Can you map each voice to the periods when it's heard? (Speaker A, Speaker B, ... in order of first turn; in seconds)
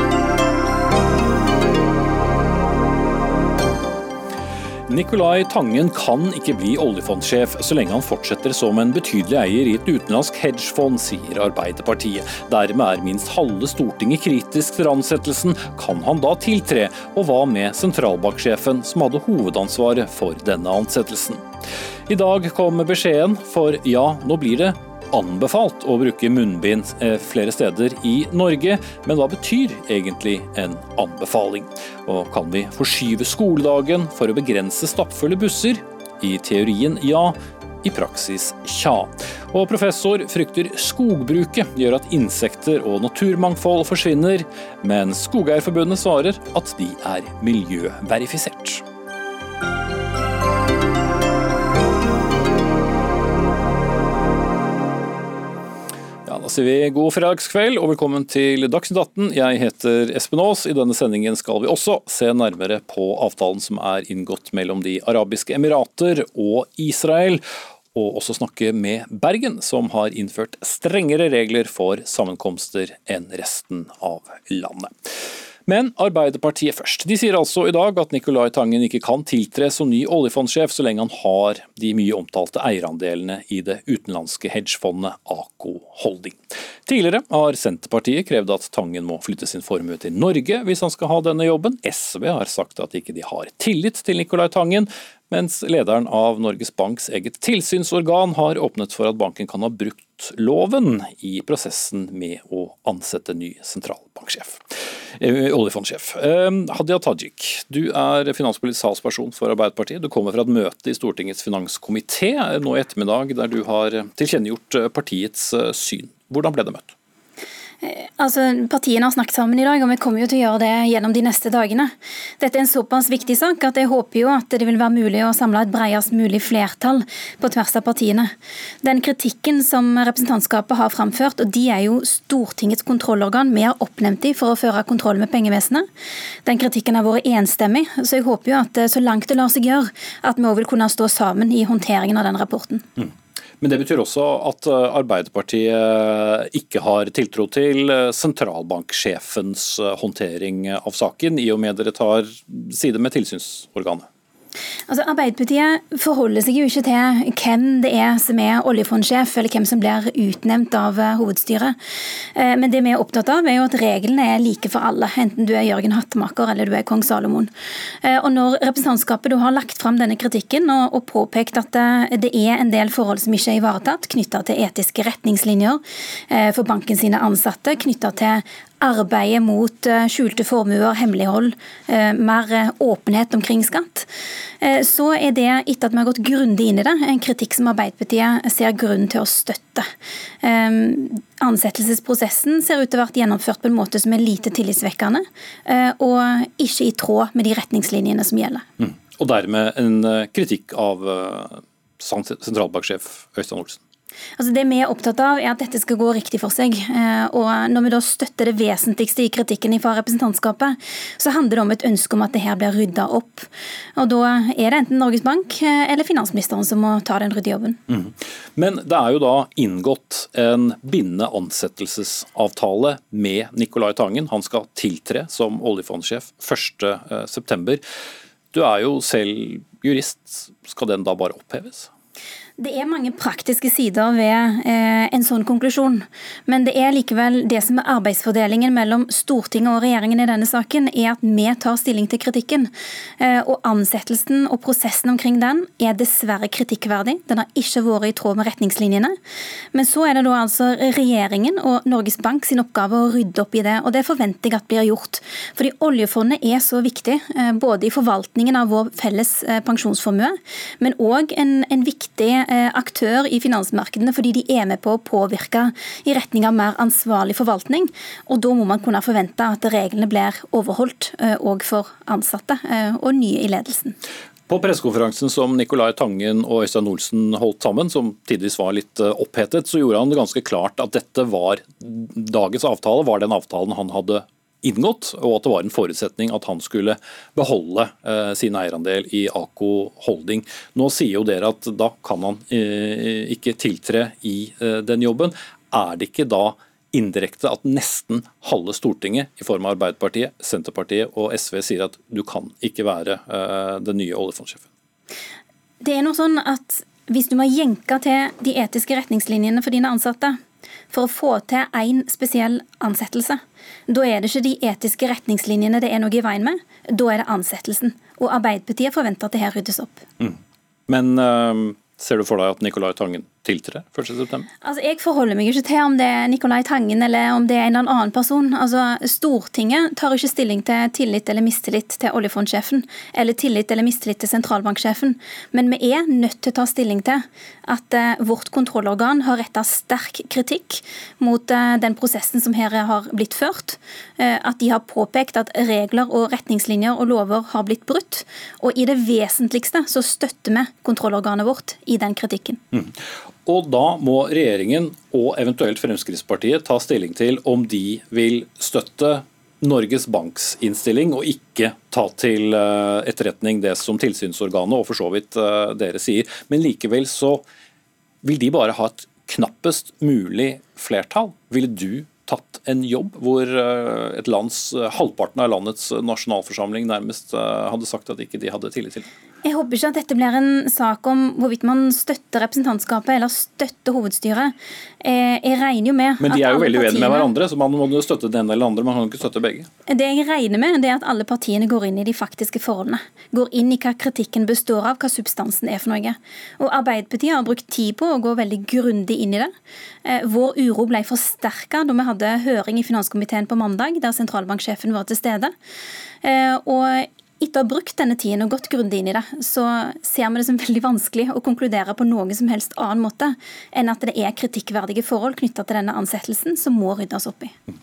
Speaker A: 4.9-21.4, 22.1-48.8, 56.2-67.4, 67.9-75.1, 75.7-116.9, 143.0-154.1, 198.8-203.8, 217.9-227.8, 228.5-231.9, 274.5-304.7, 320.9-324.5, 353.4-367.4, 368.2-379.1, 386.2-389.7
Speaker B: 117.8-135.8, 136.4-142.8, 154.9-161.8, 162.3-167.5, 168.0-184.1, 184.6-189.9, 190.4-198.6, 204.4-217.8, 232.6-249.1, 249.7-273.9, 305.8-310.4, 310.9-320.0, 324.6-352.6, 379.4-387.3, 389.9-399.5, 400.0-405.5, 406.2-417.5